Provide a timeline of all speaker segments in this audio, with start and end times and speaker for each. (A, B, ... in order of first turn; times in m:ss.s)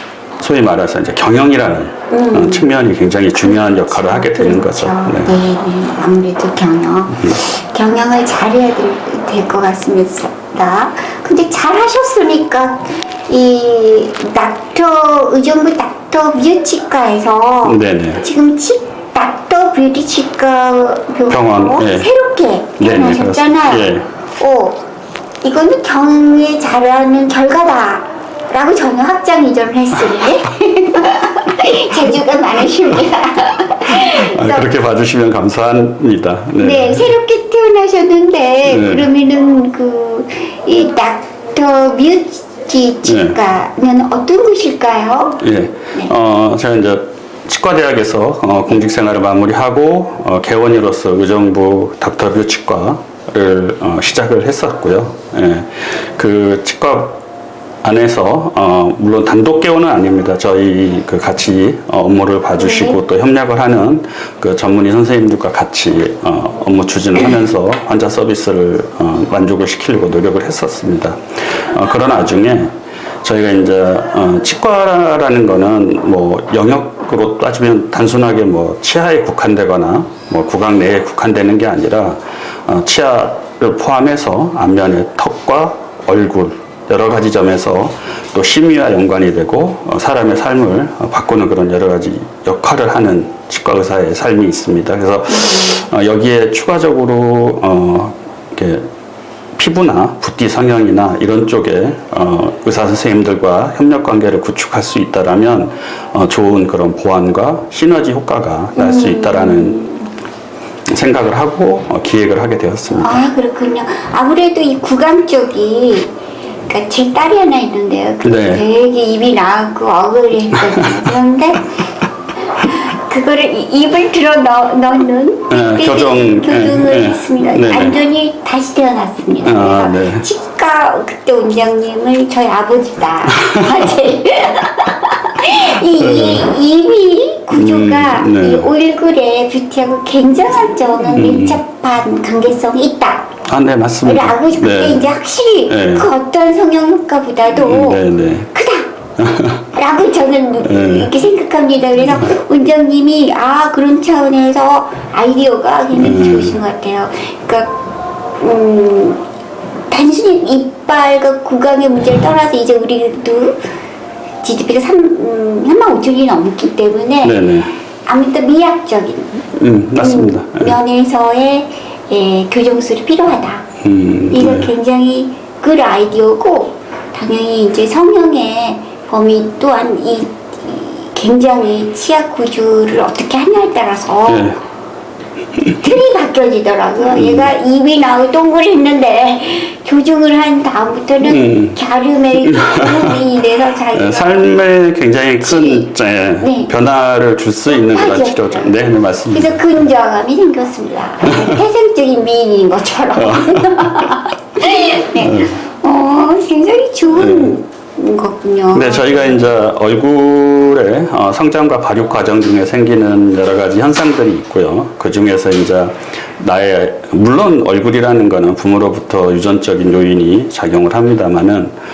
0:00.4-0:05.4 A
0:02.1-0:02.7 B
0:03.4-0:24.8 B
0:17.6-0:18.2 A
0:21.3-0:22.1 A
0:22.8-0:24.1 A
0:25.4-0:34.7 B
0:33.9-0:37.1 A
0:36.6-0:45.4 B
0:38.6-0:39.1 A
0:43.0-0:43.4 A
0:45.4-0:57.2 A
0:57.8-1:12.7 A
1:02.6-1:03.0 B
1:13.2-1:38.9 A
1:35.3-1:35.9 B
1:39.6-1:49.8 A
1:48.8-1:50.1 B
1:50.9-1:53.2 A
1:53.0-1:56.1 B
1:56.7-2:01.8 B
1:58.2-1:58.6 A
2:00.6-2:01.1 A
2:02.6-2:23.3 B
2:05.5-2:08.0 A
2:09.4-2:10.3 A
2:13.3-2:13.9 A
2:16.0-2:16.5 A
2:17.5-2:18.7 A
2:21.1-2:21.6 A
2:23.4-2:25.1 A
2:24.0-2:28.9 B
2:25.7-2:26.1 A
2:27.6-2:28.5 A
2:29.2-2:29.7 A
2:29.7-2:37.8 B
2:30.6-2:31.1 A
2:35.9-2:36.6 A
2:38.4-2:39.2 B
2:39.9-2:43.6 B
2:44.4-2:47.4 B
2:47.2-2:47.7 A
2:48.1-2:49.4 B
2:49.6-2:50.8 A
2:50.0-2:53.6 B
2:53.8-2:54.7 A
2:54.3-3:04.5 B
3:04.3-3:04.6 A
3:05.6-3:14.6 B
3:07.1-3:07.5 A
3:11.2-3:11.8 A
3:12.4-3:13.2 A
3:13.9-3:19.6 A
3:15.4-3:15.9 B
3:16.4-3:16.7 B
3:17.7-3:18.8 B
3:19.3-3:29.4 B
3:21.3-3:21.5 A
3:23.2-3:24.2 A
3:25.2-3:25.6 A
3:27.1-3:27.6 A
3:28.7-3:41.7 A